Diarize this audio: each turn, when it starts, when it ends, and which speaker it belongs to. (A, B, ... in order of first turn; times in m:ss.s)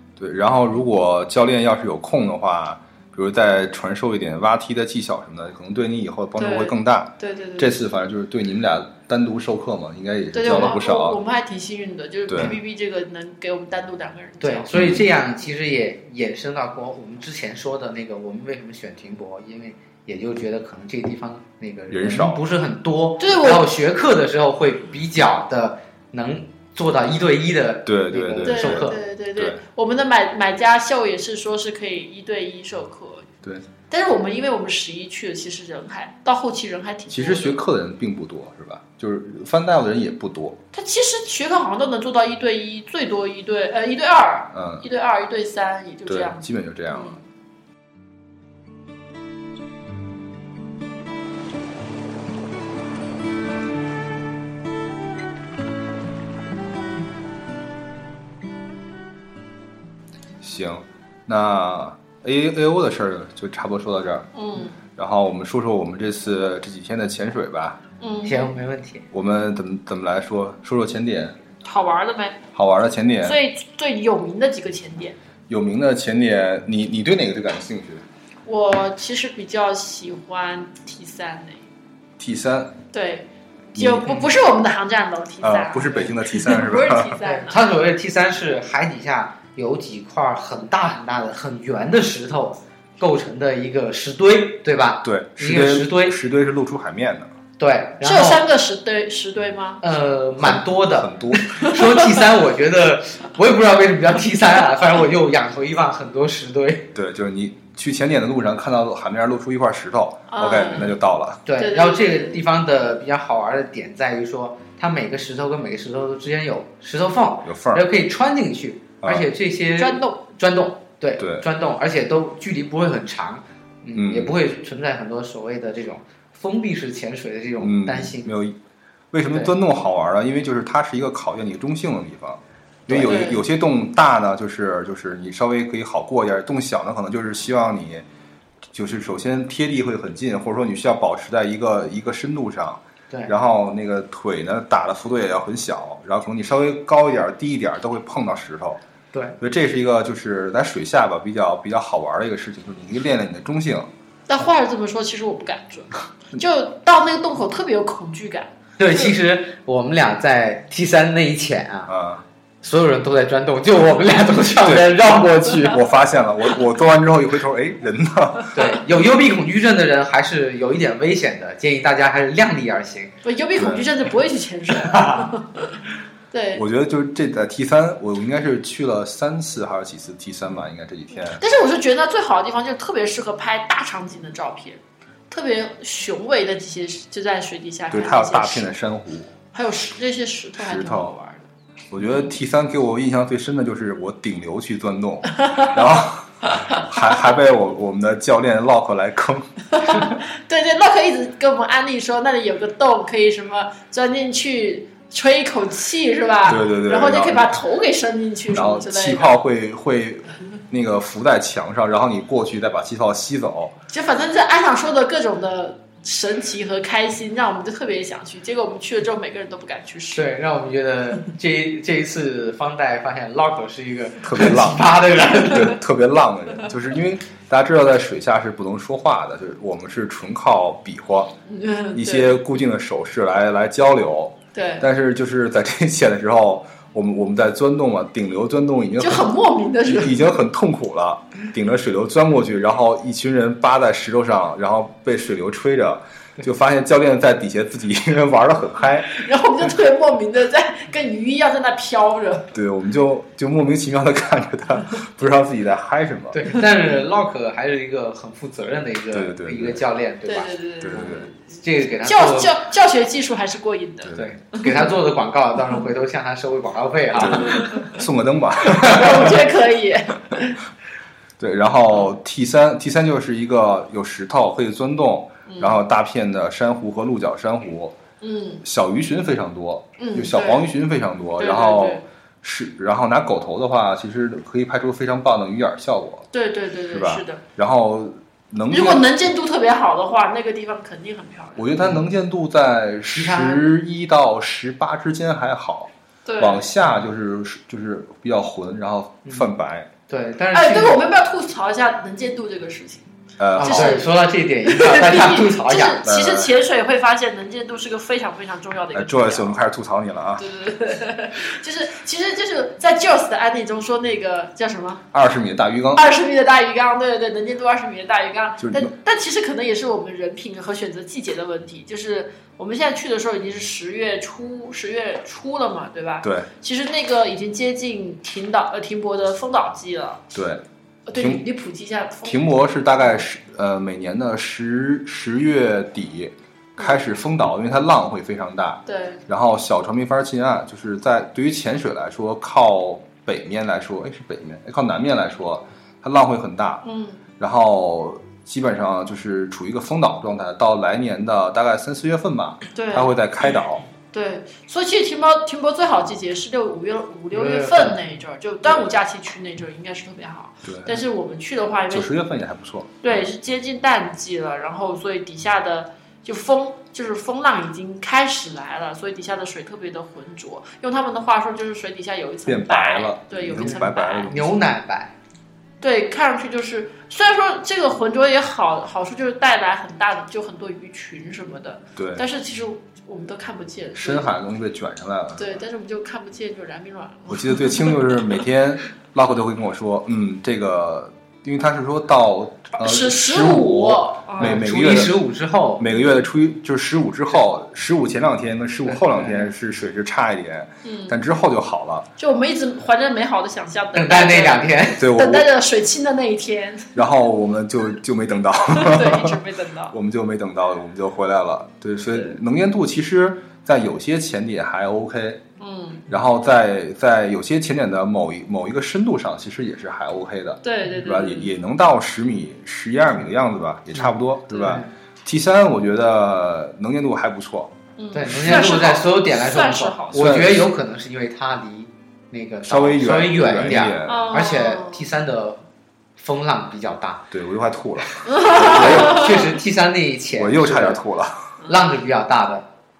0:00.2-0:11.2 A
0:06.4-0:07.8 B
0:10.3-0:14.7 B
0:12.3-0:12.6 A
0:14.4-0:29.0 C
0:14.7-0:15.0 A
0:21.9-0:22.4 A
0:23.2-0:23.7 B
0:27.8-0:29.6 A
0:28.4-0:33.3 B
0:33.9-0:37.6 B
0:37.1-0:40.6 A
0:40.7-0:47.2 B
0:44.5-0:44.8 A
0:46.1-0:47.2 A
1:00.4-1:04.3 A
1:04.3-1:04.8 B
1:04.9-1:07.8 A
1:08.0-1:08.5 B
1:08.2-1:09.0 C
1:09.1-1:11.4 A
1:11.6-1:12.4 B
1:12.5-1:13.4 A
1:13.2-1:15.2 B
1:15.5-1:18.0 A
1:18.4-1:21.6 B
1:22.2-1:22.8 A
1:22.9-1:27.6 B
1:23.8-1:24.1 A
1:24.0-1:24.3 C
1:25.4-1:27.2 A
1:27.2-1:36.2 C
1:35.0-1:37.3 A
1:37.6-1:38.4 C
1:38.0-1:39.8 B
1:39.8-1:46.9 C
1:40.4-1:41.5 A
1:41.6-1:42.0 B
1:46.9-1:51.4 A
1:50.3-1:51.0 B
1:51.4-2:08.3 C
1:51.6-1:52.4 B
1:57.4-1:57.8 A
1:59.0-1:59.3 A
1:59.8-2:00.2 B
2:01.2-2:01.4 A
2:04.0-2:04.3 A
2:07.6-2:08.6 A
2:09.1-2:18.0 A
2:12.9-2:13.3 C
2:13.0-2:13.4 B
2:18.7-2:28.8 A
2:29.4-2:33.9 A
2:34.3-2:39.1 B
2:38.8-2:41.9 C
2:41.9-2:42.2 A
2:42.6-2:45.6 C
2:44.6-2:48.7 A
2:48.5-2:53.1 C
2:53.2-2:55.8 B
2:53.6-2:53.9 A
2:54.8-2:55.3 C
2:56.3-2:56.6 B
2:56.5-3:01.4 A
3:01.3-3:04.8 B
3:05.3-3:08.7 B
3:07.9-3:09.3 A
3:09.5-3:11.4 B
3:10.6-3:11.1 A
3:11.9-3:20.1 A
3:15.4-3:15.7 B
3:19.7-3:29.4 B
3:26.4-3:27.6 A
3:28.5-3:33.7 A
3:33.9-3:40.3 B
3:40.1-3:45.8 C
3:44.2-3:44.8 A
3:45.4-3:51.3 A
3:51.5-3:52.4 B
3:51.9-4:09.2 A
3:54.5-3:54.8 B
3:59.0-4:00.2 B
4:09.1-4:12.5 B
4:12.5-4:16.4 A
4:16.3-4:22.6 C
4:19.1-4:19.8 A
4:20.2-4:21.2 B
4:20.8-4:21.3 A
4:22.0-4:25.0 B
4:24.0-4:24.3 A
4:24.1-4:27.9 C
4:27.2-4:29.5 A
4:27.4-4:27.9 B
4:28.8-4:30.6 B
4:31.4-4:38.0 A
4:35.5-4:35.8 B
4:38.2-4:38.6 B
4:38.6-4:46.3 A
4:40.0-4:40.7 B
4:41.4-4:42.0 B
4:46.3-4:47.4 B
4:46.9-4:49.0 A
4:48.7-4:51.7 B
4:51.6-4:59.9 A
4:53.1-4:53.6 C
4:56.2-4:56.7 B
5:00.1-5:01.0 C
5:00.5-5:03.1 B
5:03.4-5:04.0 A
5:03.6-5:06.0 C
5:03.6-5:04.1 B
5:04.6-5:09.6 B
5:06.0-5:06.5 A
5:08.9-5:10.4 A
5:10.4-5:15.0 B
5:15.1-5:16.0 A
5:15.9-5:30.2 B
5:18.6-5:18.9 A
5:26.2-5:26.5 A
5:30.3-5:31.4 A
5:31.0-5:32.4 B
5:32.2-5:46.8 A
5:36.8-5:37.0 B
5:38.9-5:39.2 B
5:46.8-5:47.2 B
5:47.4-5:53.8 A
5:52.7-5:53.1 B
5:54.1-6:02.1 B
5:57.3-5:58.0 C
5:58.6-5:59.0 A
6:00.6-6:01.0 A
6:01.9-6:03.3 A
6:03.0-6:14.5 B
6:12.4-6:14.4 A
6:13.5-6:15.1 C
6:15.8-6:24.3 B
6:22.0-6:22.2 A
6:23.9-6:25.6 A
6:25.4-6:28.3 B
6:27.3-6:35.2 A
6:32.8-6:34.6 B
6:34.4-6:35.8 C
6:35.8-6:42.1 A
6:38.8-6:39.5 C
6:40.8-6:41.2 B
6:42.2-6:47.0 B
6:43.9-6:45.0 C
6:45.0-6:45.5 A
6:46.9-6:49.4 A
6:48.7-6:49.9 B
6:49.9-6:55.4 A
6:52.1-6:52.4 B
6:55.6-6:56.0 B
6:56.1-7:07.7 A
7:00.6-7:01.5 B
7:04.0-7:04.9 C
7:08.0-7:10.4 B
7:08.1-7:15.6 C
7:10.1-7:10.7 A
7:12.6-7:14.3 A
7:14.1-7:15.1 B
7:16.2-7:17.3 C
7:17.3-7:19.4 A
7:18.2-7:19.5 B
7:18.5-7:21.0 C
7:20.4-7:21.6 A
7:21.6-7:22.6 C